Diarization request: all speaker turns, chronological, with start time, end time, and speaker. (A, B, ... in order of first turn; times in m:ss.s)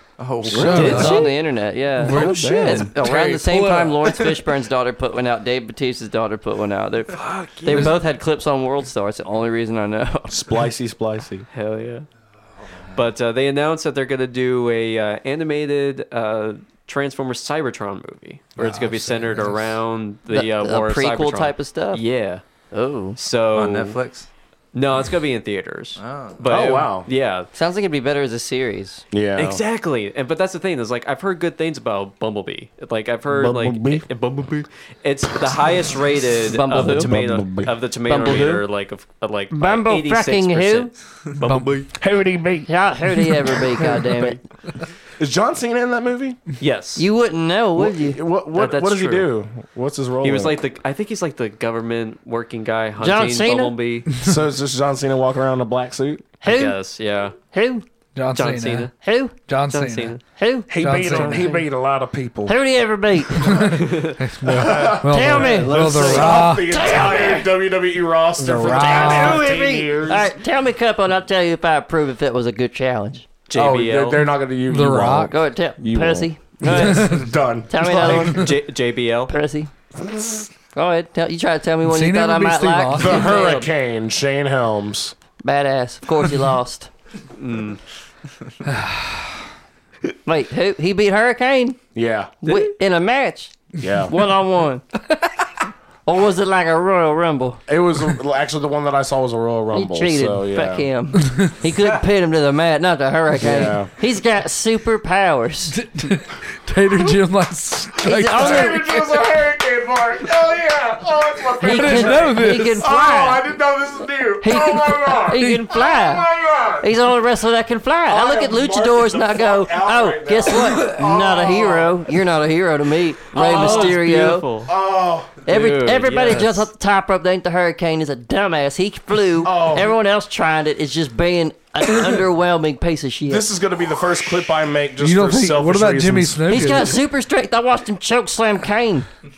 0:00.2-0:01.2 A
0:00.4-0:01.3 B
0:00.5-0:01.4 C
0:00.6-0:10.4 D
0:02.0-0:04.4 C
0:02.1-0:02.9 B
0:07.1-0:08.0 E
0:10.3-0:11.4 B
0:11.5-0:12.1 E
0:12.9-0:22.4 E
0:18.6-0:19.8 C
0:20.3-0:22.0 D
0:22.7-0:23.2 D
0:23.2-0:24.0 E
0:23.5-0:24.3 A
0:24.7-0:27.5 E
0:26.0-0:26.4 A
0:26.5-0:27.1 B
0:27.5-0:29.0 D
0:29.1-0:29.6 B
0:29.4-0:41.9 E
0:33.3-0:34.0 B
0:36.5-0:37.1 D
0:36.7-0:37.7 B
0:38.0-0:38.6 D
0:39.5-0:40.9 D
0:41.4-0:41.9 C
0:42.0-0:44.3 B
0:42.6-0:44.4 D
0:45.2-0:46.4 B
0:46.6-0:47.1 E
0:47.0-0:48.2 D
0:47.8-0:50.6 B
0:48.5-0:49.3 E
0:50.2-0:54.1 E
0:53.0-0:53.8 D
0:54.2-0:56.3 B
0:56.4-0:56.8 D
0:56.5-0:57.4 E
0:57.4-0:57.8 D
0:58.1-0:58.9 C
0:58.3-0:58.9 E
0:59.0-0:59.3 D
0:59.5-1:00.2 C
0:59.6-1:00.2 E
1:00.3-1:00.7 D
1:00.7-1:02.6 B
1:00.8-1:01.6 C
1:01.0-1:01.5 E
1:02.4-1:03.7 D
1:03.4-1:06.7 C
1:03.6-1:04.3 E
1:04.4-1:10.3 B
1:05.0-1:07.5 D
1:08.4-1:13.2 D
1:08.5-1:09.4 C
1:13.5-1:14.2 E
1:13.5-1:18.5 B
1:14.7-1:15.4 C
1:15.3-1:17.0 D
1:16.6-1:17.0 E
1:16.7-1:17.3 C
1:17.7-1:18.5 D
1:17.8-1:19.3 E
1:19.3-1:19.7 D
1:20.0-1:20.4 B
1:20.7-1:23.7 D
1:21.8-1:23.2 C
1:22.9-1:25.1 B
1:25.4-1:26.9 D
1:27.4-1:27.8 E
1:28.6-1:29.3 C
1:30.2-1:31.8 D
1:31.9-1:32.4 B
1:32.4-1:33.5 D
1:32.4-1:32.7 E
1:33.8-1:34.1 B
1:34.1-1:34.8 D
1:36.0-1:37.6 D
1:37.7-1:40.9 B
1:39.7-1:45.8 D
1:43.4-1:43.9 B
1:45.7-1:49.1 C
1:48.0-1:49.0 D
1:48.2-1:57.0 B
1:51.6-1:53.4 D
1:51.6-1:52.8 C
1:54.4-1:56.3 D
1:56.8-2:04.5 D
1:58.0-2:02.1 B
2:03.3-2:04.7 E
2:03.3-2:04.0 B
2:04.6-2:05.4 B
2:05.4-2:13.5 D
2:05.5-2:06.7 E
2:09.4-2:09.9 B
2:13.2-2:16.9 B
2:15.0-2:17.0 C
2:16.5-2:19.1 D